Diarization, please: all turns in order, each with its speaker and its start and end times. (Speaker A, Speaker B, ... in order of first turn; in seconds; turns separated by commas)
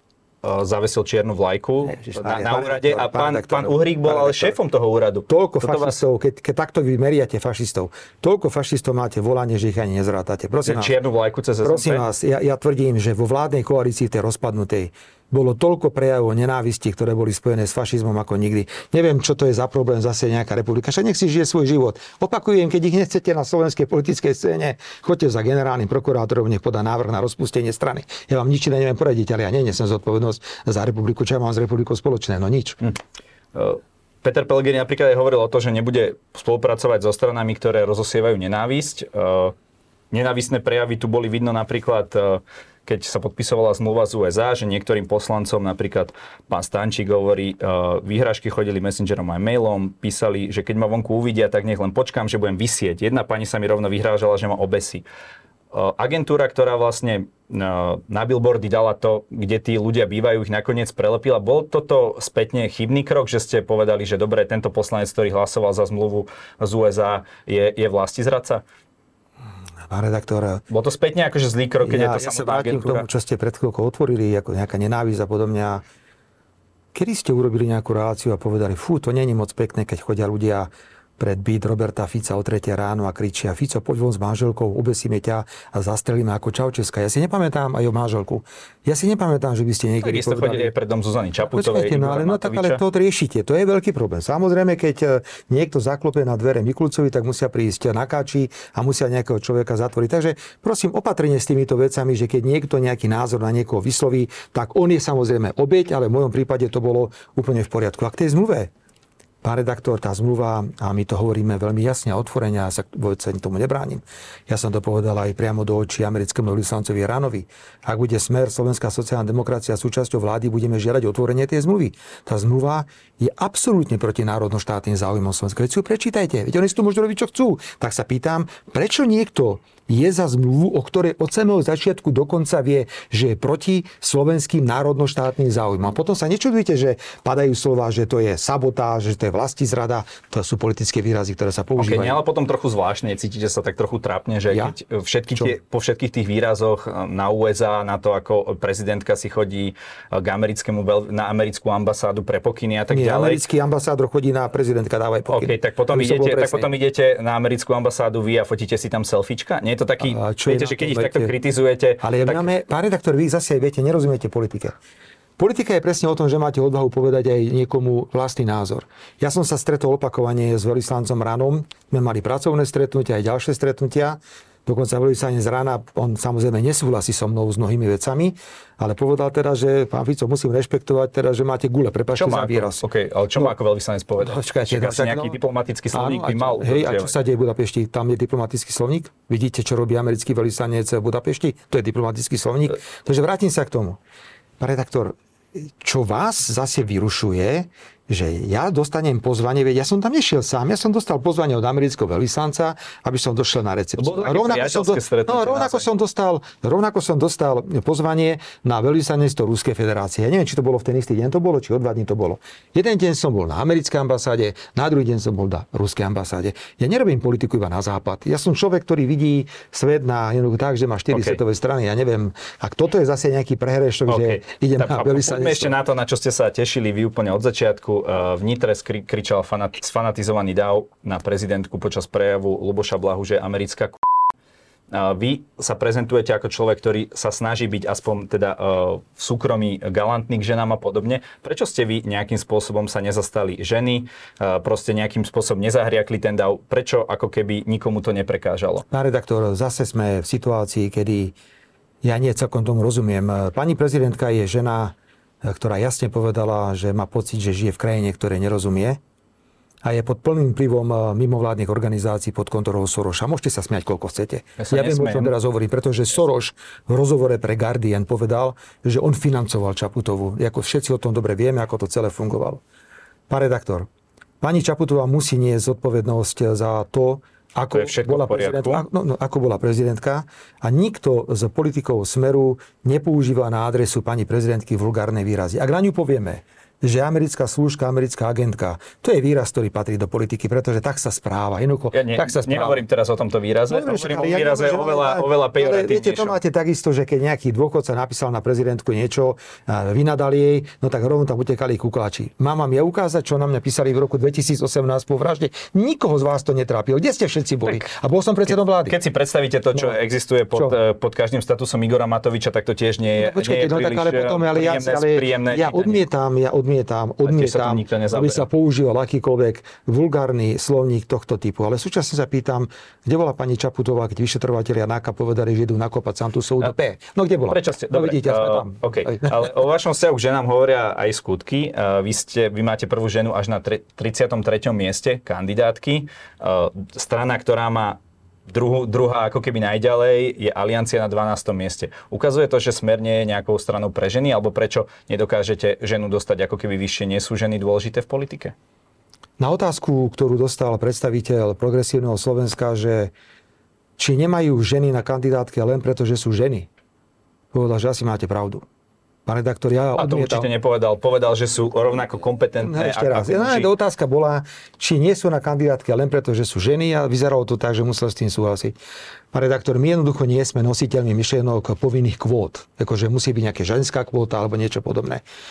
Speaker A: 0.4-6.0, Speaker B: 1.8-4.6, Speaker B: 5.3-10.9, Speaker A: 10.6-12.1, Speaker B: 11.6-32.8, Speaker A: 33.5-39.5, Speaker A: 40.1-55.0, Speaker A: 55.7-68.6, Speaker B: 69.9-70.6, Speaker A: 70.7-73.1, Speaker B: 71.8-75.8, Speaker B: 76.9-90.7, Speaker A: 90.0-92.8, Speaker B: 91.5-108.7, Speaker B: 109.4-142.2, Speaker A: 141.8-153.4, Speaker B: 144.5-144.7, Speaker B: 152.9-156.7, Speaker A: 155.3-162.5, Speaker B: 160.0-161.3, Speaker B: 162.0-164.8, Speaker B: 165.4-182.8, Speaker A: 182.1-187.2, Speaker B: 184.2-185.4, Speaker B: 185.9-194.0, Speaker B: 194.6-225.7, Speaker A: 204.0-205.9, Speaker A: 221.1-221.4, Speaker A: 224.1-234.0, Speaker A: 234.9-248.8, Speaker B: 248.9-251.3, Speaker B: 252.0-259.0, Speaker B: 259.8-272.6, Speaker A: 264.6-265.3, Speaker B: 273.3-273.9, Speaker B: 274.4-292.8, Speaker A: 277.7-278.8, Speaker A: 291.9-296.4, Speaker B: 293.7-309.0, Speaker A: 308.5-316.0, Speaker B: 313.1-329.4, Speaker A: 317.2-318.5, Speaker A: 327.5-348.5, Speaker B: 349.4-353.1, Speaker B: 354.0-356.7, Speaker B: 357.5-358.6, Speaker B: 359.2-360.5, Speaker A: 359.9-363.7, Speaker B: 362.6-368.8, Speaker B: 369.3-375.2